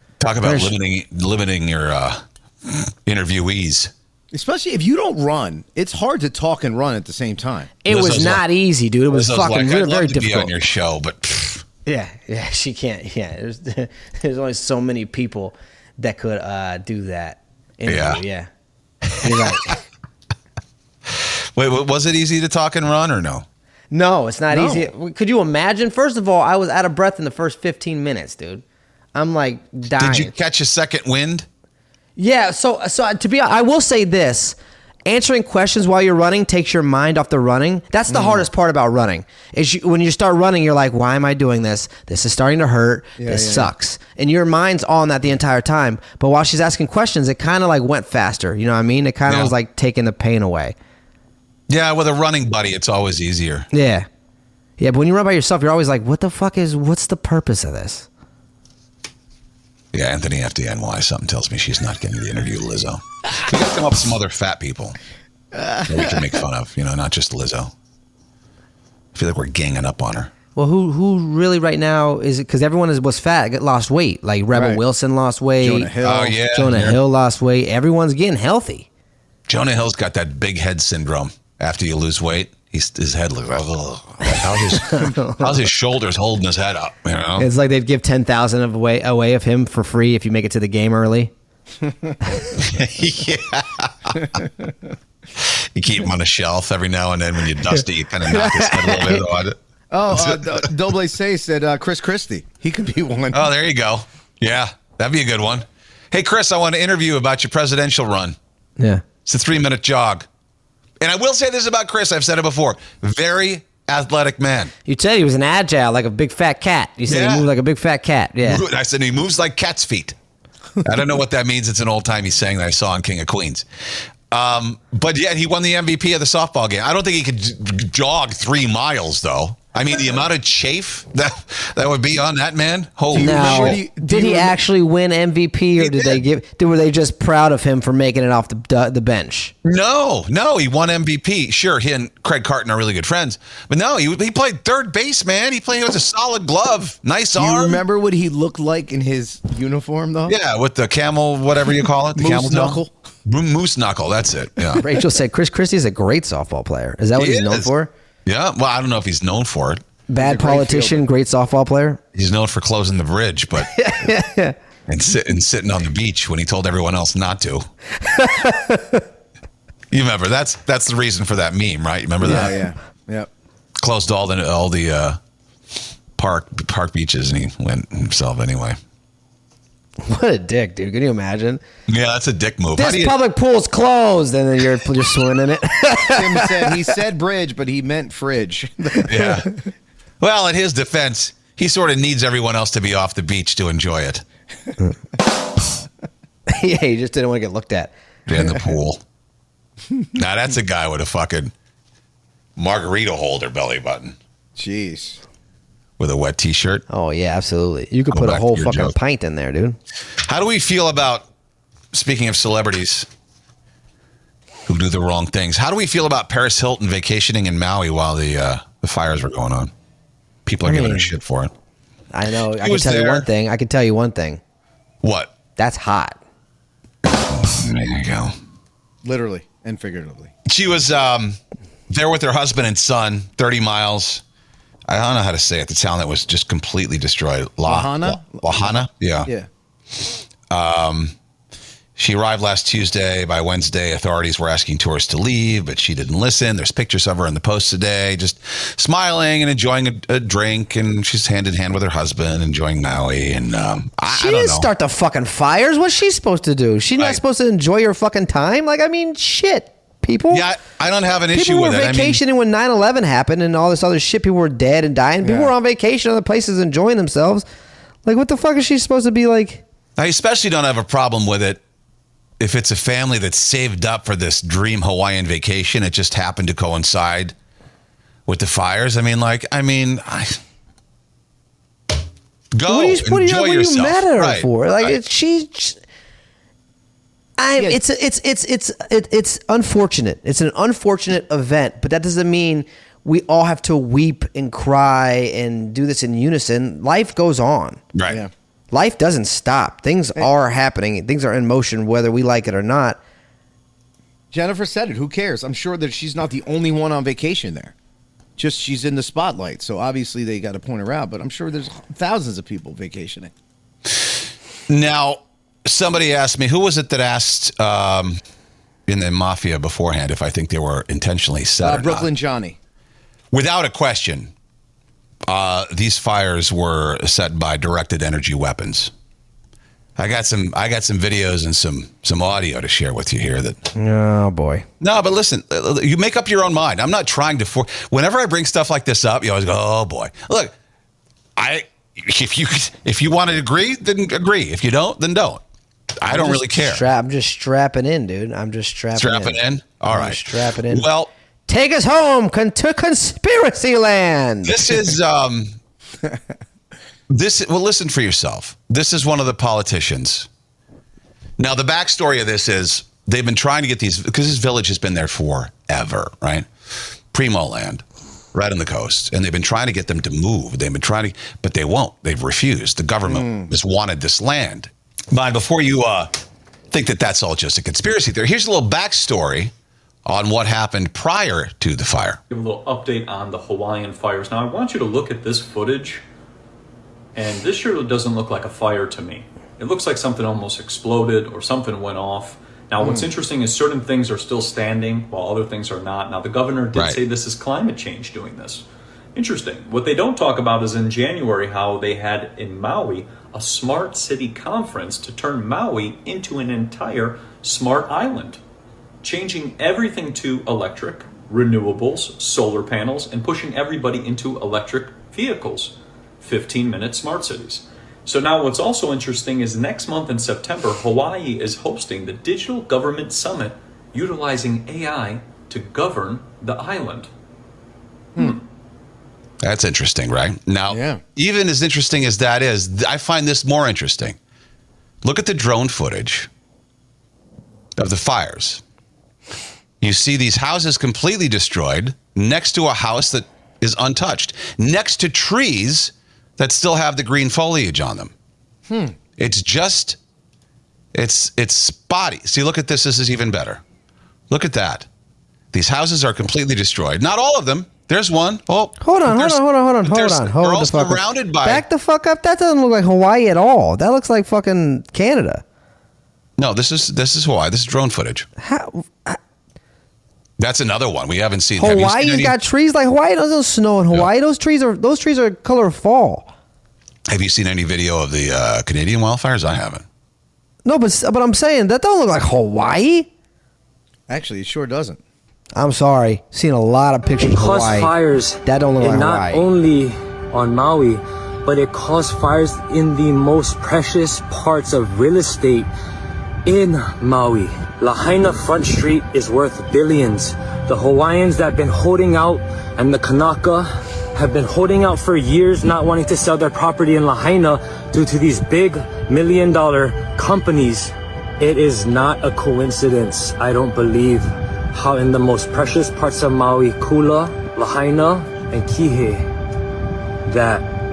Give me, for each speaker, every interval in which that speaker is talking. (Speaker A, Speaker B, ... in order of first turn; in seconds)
Speaker A: 0.2-3.9, 7.9-8.4, 9.1-11.6, 17.9-18.2, 19.2-19.7, 21.1-23.4, 30.0-31.5, 49.3-49.5, 51.7-53.7, 59.9-65.0, 65.9-67.7, 69.1-70.3, 76.0-77.0, 79.5-87.5, 92.6-94.3, 95.4-99.6, 100.1-100.7, 103.3-108.4, 109.2-110.2, 111.0-114.7, 117.1-117.5, 118.4-120.2, 120.8-123.7, 124.3-133.8, 135.8-136.2, 139.6-147.8, 150.2-154.8, 157.2-157.7, 158.2-159.8, 162.1-163.7, 164.9-167.7, 169.9-172.6, 173.8-175.2, 176.2-178.8, 181.9-183.2, 189.1-189.5, 190.2-194.2, 198.3-199.0, 200.2-201.5, 202.6-204.2, 206.0-206.8, 208.1-209.0, 210.2-211.3, 211.9-213.1, 214.7-219.7, 220.5-221.5, 222.6-223.3, 225.0-225.3, 227.1-228.4, 230.5-234.2, 234.9-239.3, 240.1-241.1, 242.0-254.7, 260.3-262.2, 270.0-271.6, 272.4-277.3, 278.3-280.4, 282.5-284.9, 297.9-298.2, 314.7-318.2, 318.9-322.1, 323.3-324.3, 325.3-328.9, 330.0-333.6, 334.8-340.5, 341.4-345.4, 345.9-346.8, 349.0-351.1, 354.4-355.6, 357.1-360.3, 361.4-366.5, 367.1-367.8, 368.3-376.1, 376.7-379.5, 380.1-382.2, 396.7-397.0, 429.4-434.2, 435.0-436.3, 437.8-438.6, 439.8-448.1, 449.2-450.0, 450.9-453.6, 454.3-454.9, 455.5-461.6, 466.4-468.3, 470.4-472.4, 477.1-479.9
Speaker B: 0.4-0.8, 7.8-10.5, 11.9-18.5, 19.2-19.8, 23.9-28.6, 29.1-30.3, 32.2-50.8, 53.7-54.1, 54.8-58.1, 70.6-75.9, 76.5-78.9, 84.8-85.5, 87.4-91.3, 98.3-99.2, 108.8-109.0, 114.9-118.6, 133.1-139.5, 154.8-157.9, 160.1-162.0, 163.6-164.6, 168.0-169.0, 180.0-181.6, 182.8-186.9, 196.5-197.9, 206.9-209.8, 220.6-221.2, 222.1-224.4, 225.6-226.2, 254.1-260.5, 261.3-267.4, 268.1-269.6, 282.7-285.8, 287.4-297.8, 298.7-303.0, 333.8-334.6, 346.1-350.9, 351.5-354.7, 458.8-465.4, 468.4-469.2, 471.6-476.3, 480.6-483.1, 485.6-487.9, 488.4-489.4
Speaker C: 4.3-7.7, 24.5-24.9, 38.1-38.5, 43.2-43.7, 65.5-66.2, 74.5-74.8, 75.6-76.4, 91.9-92.1, 94.3-94.7, 99.9-103.5, 133.1-134.6, 147.3-150.4, 152.2-152.9, 160.2-161.0, 172.2-173.3, 186.1-189.6, 204.6-205.2, 229.0-230.3, 237.7-239.5, 265.2-265.5, 304.3-307.7, 308.4-313.3, 321.6-322.6, 373.1-373.5, 392.8-393.1, 430.7-431.0, 448.7-449.0, 484.1-485.0
Speaker D: 382.3-386.0, 387.1-398.6, 399.1-408.4, 409.0-427.1, 428.2-428.4
Speaker E: 487.2-495.7, 496.4-519.3, 520.2-520.7